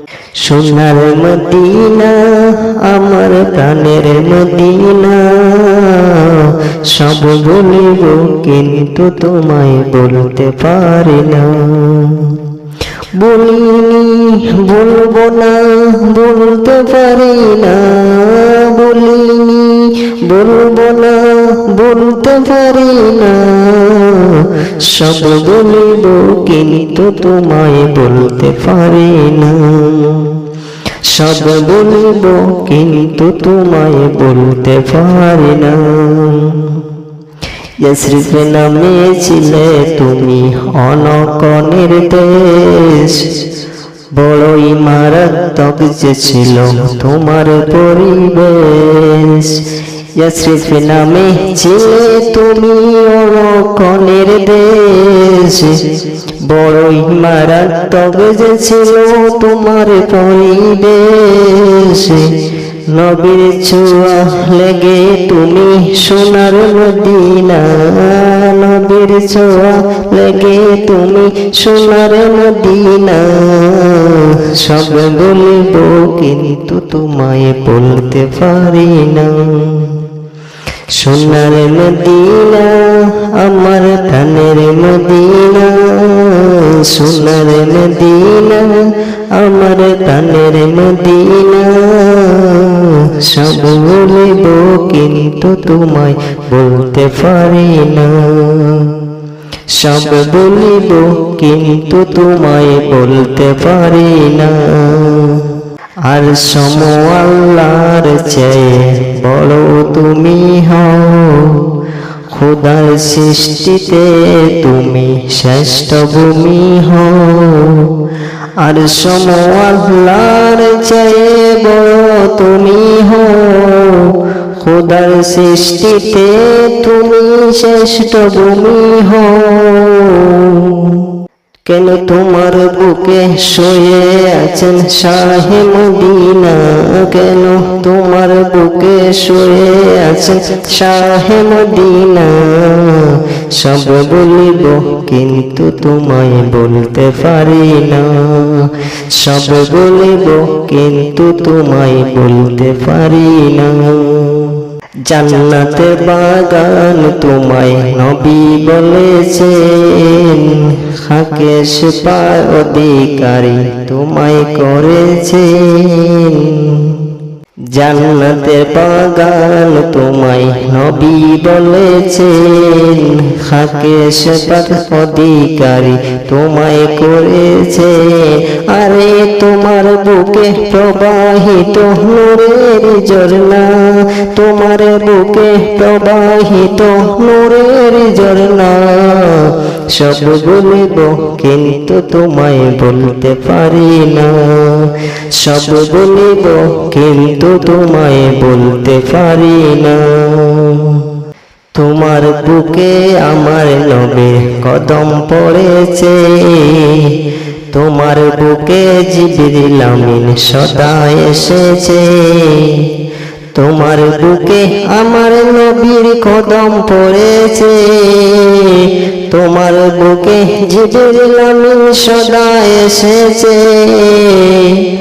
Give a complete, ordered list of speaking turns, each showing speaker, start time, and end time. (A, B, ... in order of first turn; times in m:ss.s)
0:00.4-0:12.5 A
0:13.2-0:30.4 A
0:31.0-0:36.8 A
0:37.8-0:43.4 A
0:44.1-1:20.0 A
1:20.9-1:39.0 A
1:39.7-1:45.6 A
1:46.1-1:51.7 A
1:52.3-1:58.0 A
1:58.6-2:11.1 A
2:11.6-2:47.1 A
2:47.7-3:21.1 A
3:21.7-3:27.2 A
3:27.7-3:32.9 A
3:33.5-3:44.9 A